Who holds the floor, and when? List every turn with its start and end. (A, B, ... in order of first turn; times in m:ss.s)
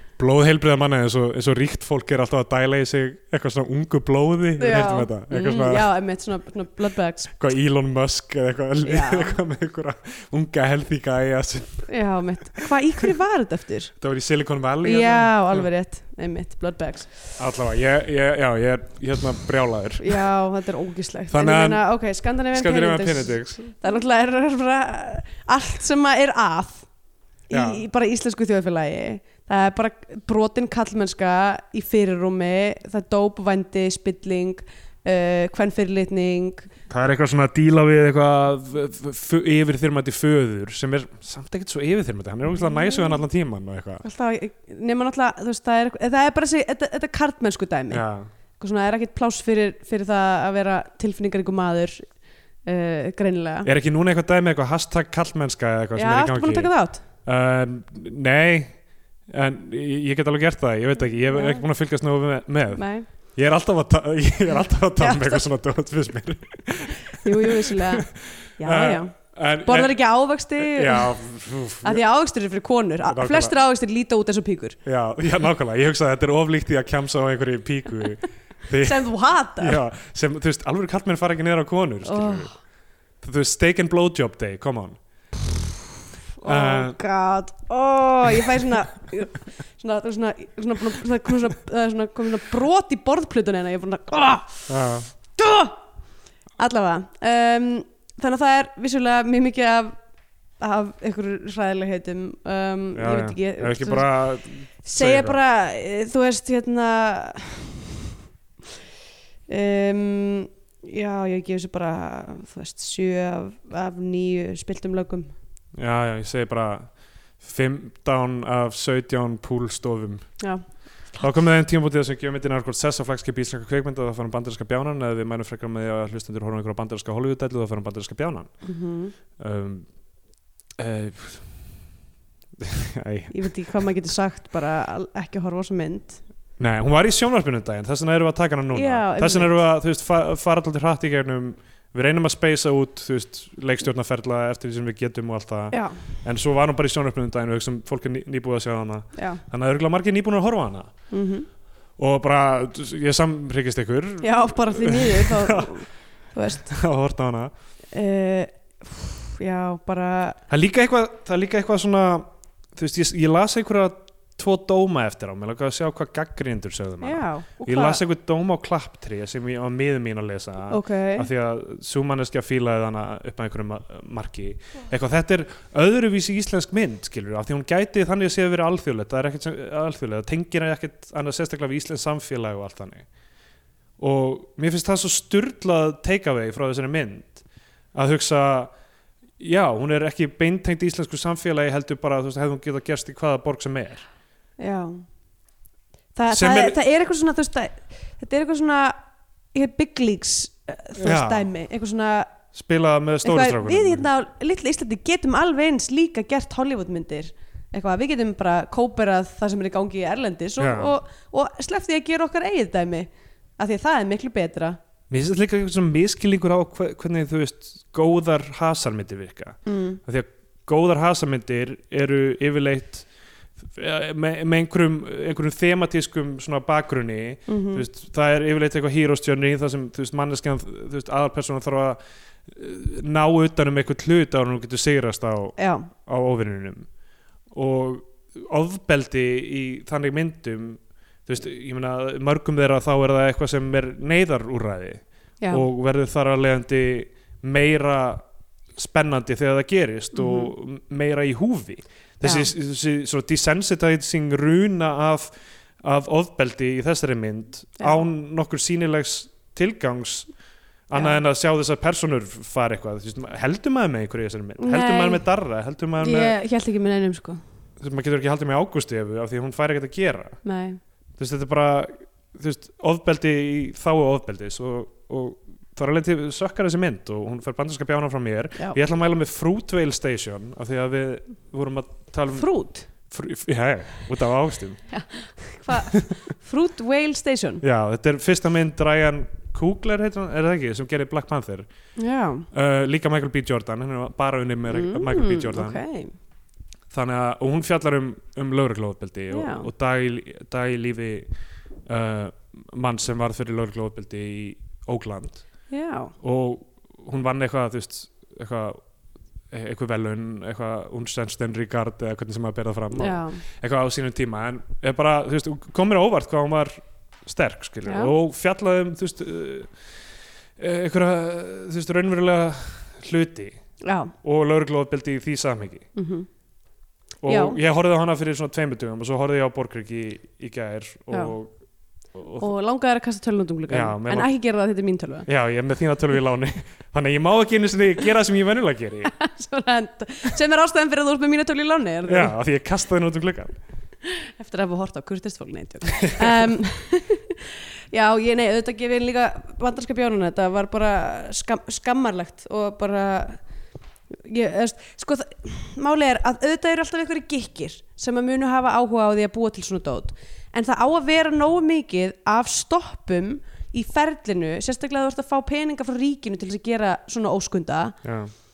0:00.2-0:05.9 A
0:04.6-0:07.3 B
0:07.3-0:11.9 A
0:08.8-0:09.4 B
0:11.9-0:13.9 B
0:14.0-0:15.7 A
0:14.8-0:17.1 B
0:17.4-0:20.2 A
0:20.0-0:26.9 B
0:21.3-0:21.8 A
0:22.5-0:23.7 A
0:27.5-0:27.8 A
0:27.5-0:36.7 B
0:36.9-0:44.0 A
0:42.5-0:43.2 B
0:44.0-0:48.0 B
0:47.9-0:48.3 A
0:48.6-0:52.0 B
0:52.6-0:53.7 B
0:53.6-1:10.0 A
0:56.0-0:57.0 B
1:01.3-1:01.6 B
1:02.7-1:03.0 B
1:05.0-1:05.4 B
1:07.1-1:11.1 B
1:10.6-1:12.0 A
1:11.8-1:14.8 B
1:13.1-1:13.5 A
1:14.8-1:22.5 A
1:18.8-1:19.8 B
1:22.0-1:22.5 B
1:23.2-1:25.0 A
1:26.4-1:34.7 B
1:26.4-1:27.0 A
1:34.7-1:35.1 A
1:35.4-1:35.8 B
1:36.6-1:40.0 B
1:40.6-1:44.2 B
1:43.0-1:45.4 A
1:44.8-1:47.8 B
1:49.5-1:55.3 B
1:55.7-2:00.4 A
2:01.1-2:08.6 A
2:08.6-2:09.1 B
2:09.4-2:09.9 A
2:10.8-2:11.7 A
2:12.6-2:13.8 A
2:13.3-2:16.2 B
2:16.6-2:30.9 A
2:18.7-2:19.5 B
2:25.7-2:26.0 B
2:29.2-2:29.4 B
2:31.1-2:31.5 B
2:32.0-2:35.8 A
2:34.2-2:36.7 B
2:36.6-2:37.5 A
2:37.9-2:40.4 B
2:40.5-3:03.0 A
2:47.0-2:48.0 B
2:50.7-2:51.3 B
3:04.0-3:07.4 A
3:07.9-3:08.7 A
3:09.4-3:14.0 A
3:14.6-3:15.0 B
3:16.1-3:19.0 B
3:16.3-3:16.8 A
3:19.5-3:22.3 B
3:21.0-3:21.5 A
3:22.5-3:24.0 A
3:23.2-3:34.8 B
3:30.6-3:30.9 A
3:35.1-3:43.1 A
3:39.6-3:40.0 B
3:43.6-3:56.9 A
3:47.5-3:47.8 B
3:55.6-3:55.9 B
3:57.5-4:08.2 A
4:08.8-4:15.3 A
4:10.1-4:10.5 B
4:12.2-4:12.5 B
4:15.8-4:20.3 A
4:20.9-4:26.3 A
4:20.9-4:21.2 B
4:24.6-4:25.2 B
4:26.0-4:27.4 B
4:27.8-4:30.4 A
4:30.4-4:30.8 B
4:31.2-4:42.5 A
4:42.3-4:42.9 B
4:43.0-4:44.8 A
4:44.9-4:47.6 B
4:47.6-4:51.7 A
4:52.0-4:52.5 B
4:52.5-4:55.8 A
4:54.7-4:56.1 B
4:56.9-5:01.3 A
4:59.3-4:59.7 B
5:01.9-5:05.4 A
5:05.7-5:06.1 B
5:06.2-5:08.8 A
5:09.5-5:19.7 A
5:12.9-5:13.4 B
5:17.8-5:18.1 B
5:20.6-5:23.6 A
5:23.8-5:24.1 B
5:24.2-5:25.9 A
5:25.9-5:26.3 B
5:27.2-5:31.5 A
5:27.2-5:27.6 B
5:32.1-5:32.5 A
5:32.4-5:35.3 B
5:33.7-5:34.3 A
5:35.3-5:39.1 A
5:39.1-5:42.3 B
5:42.1-5:43.5 A
5:44.0-5:53.4 B
5:46.0-5:46.5 A
5:54.1-6:08.0 B
6:08.0-6:08.3 A